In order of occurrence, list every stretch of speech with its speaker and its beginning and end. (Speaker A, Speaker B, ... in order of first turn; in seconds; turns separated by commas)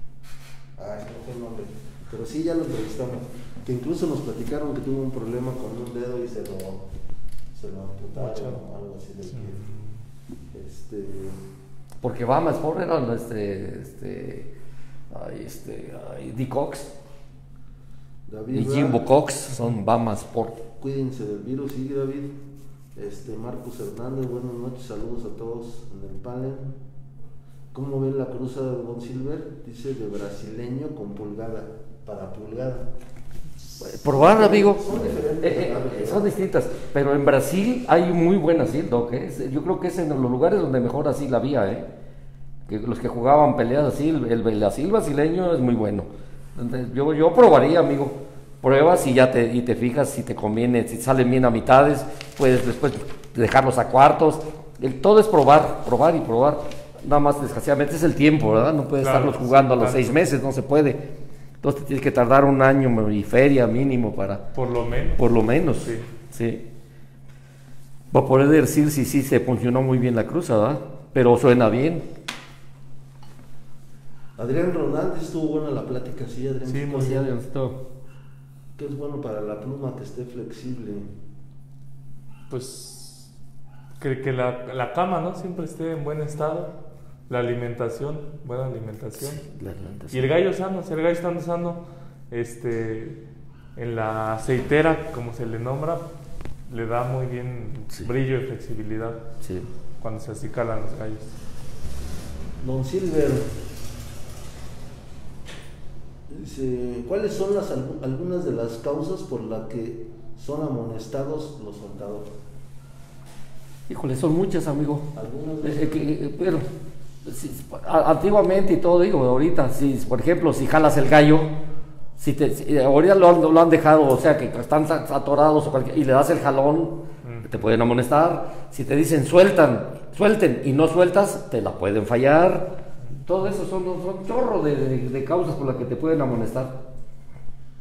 Speaker A: 0.8-6.9, Speaker A: 7.5-9.6, Speaker B: 8.2-8.6, Speaker B: 9.3-9.9, Speaker A: 10.5-11.4, Speaker C: 12.0-14.5, Speaker C: 15.1-16.9, Speaker A: 18.3-19.1, Speaker C: 18.5-20.6, Speaker A: 20.8-22.4, Speaker A: 22.9-26.7, Speaker A: 27.7-32.9, Speaker C: 33.8-41.9, Speaker A: 33.9-36.3, Speaker C: 42.7-61.1, Speaker B: 59.0-60.2, Speaker C: 61.6-64.5, Speaker B: 64.5-66.1, Speaker C: 65.2-66.7, Speaker C: 68.1-72.1, Speaker A: 74.4-77.3, Speaker B: 76.7-77.1, Speaker C: 76.8-77.9, Speaker A: 78.8-81.1, Speaker B: 82.5-83.3, Speaker B: 84.0-86.7, Speaker B: 87.3-89.5, Speaker C: 89.2-90.3, Speaker B: 90.1-93.2, Speaker B: 93.8-96.1, Speaker B: 96.7-99.2, Speaker C: 99.4-99.7, Speaker B: 100.0-101.3, Speaker A: 102.6-103.6, Speaker A: 106.3-112.3, Speaker C: 113.9-115.1, Speaker A: 115.1-116.1, Speaker C: 115.6-116.7, Speaker C: 117.2-121.6, Speaker C: 122.2-136.8